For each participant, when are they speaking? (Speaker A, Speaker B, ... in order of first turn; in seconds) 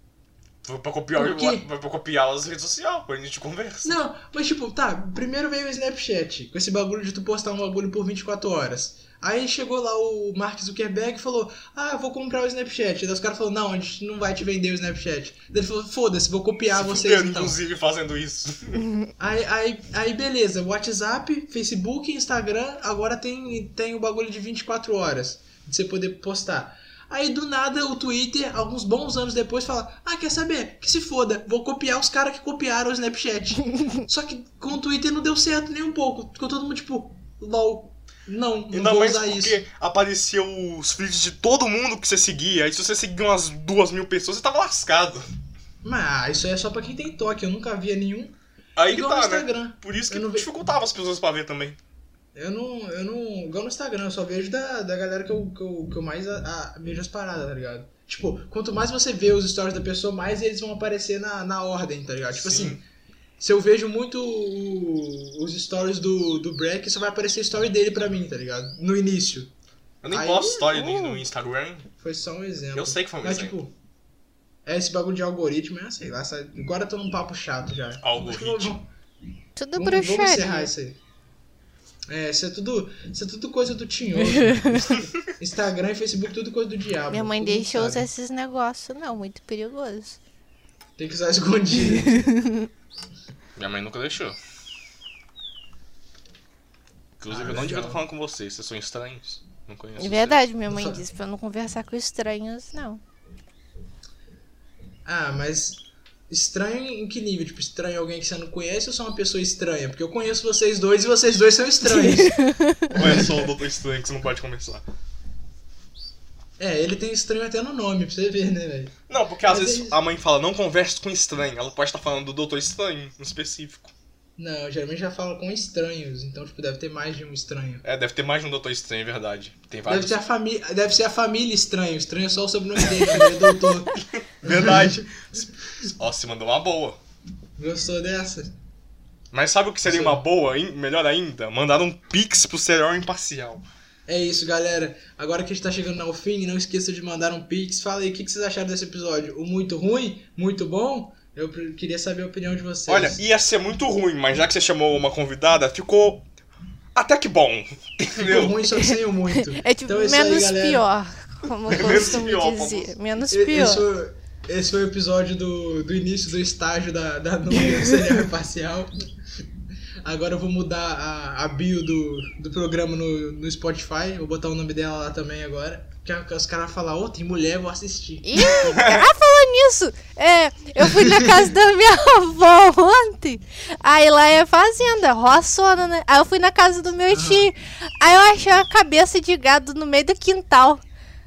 Speaker A: 0.6-4.0, 16.7-18.9, 38.7-45.3, 48.8-51.8, 62.3-62.8, 70.0-71.9, 72.8-73.6, 78.0-78.8, 93.6-94.4, 97.2-100.4, 112.9-114.8, 119.1-123.9, 127.8-130.2, 133.9-137.0, 139.3-143.7, 152.9-156.3, 156.9-158.6, 161.7-162.9, 178.6-179.1
Speaker B: 1.1-1.7, 3.8-17.6, 19.2-39.6, 45.8-50.5, 52.4-62.8, 63.4-69.5, 70.1-70.6, 72.0-73.7, 74.7-78.9, 79.8-81.0, 82.1-88.1, 91.0-92.3, 97.3-98.0, 100.7-101.0, 105.1-112.4, 112.9-113.2, 116.6-120.0, 124.4-127.8, 129.9-135.9, 137.6-138.5, 139.8-140.2, 144.1-153.2, 158.2-160.8, 163.3-168.9, 170.0-178.5, 187.1-187.5
Speaker C: 70.6-71.2, 79.6-80.7, 84.2-84.8, 87.1-90.2, 91.9-92.7, 100.0-103.0, 111.9-113.0, 158.7-163.8, 178.2-190.8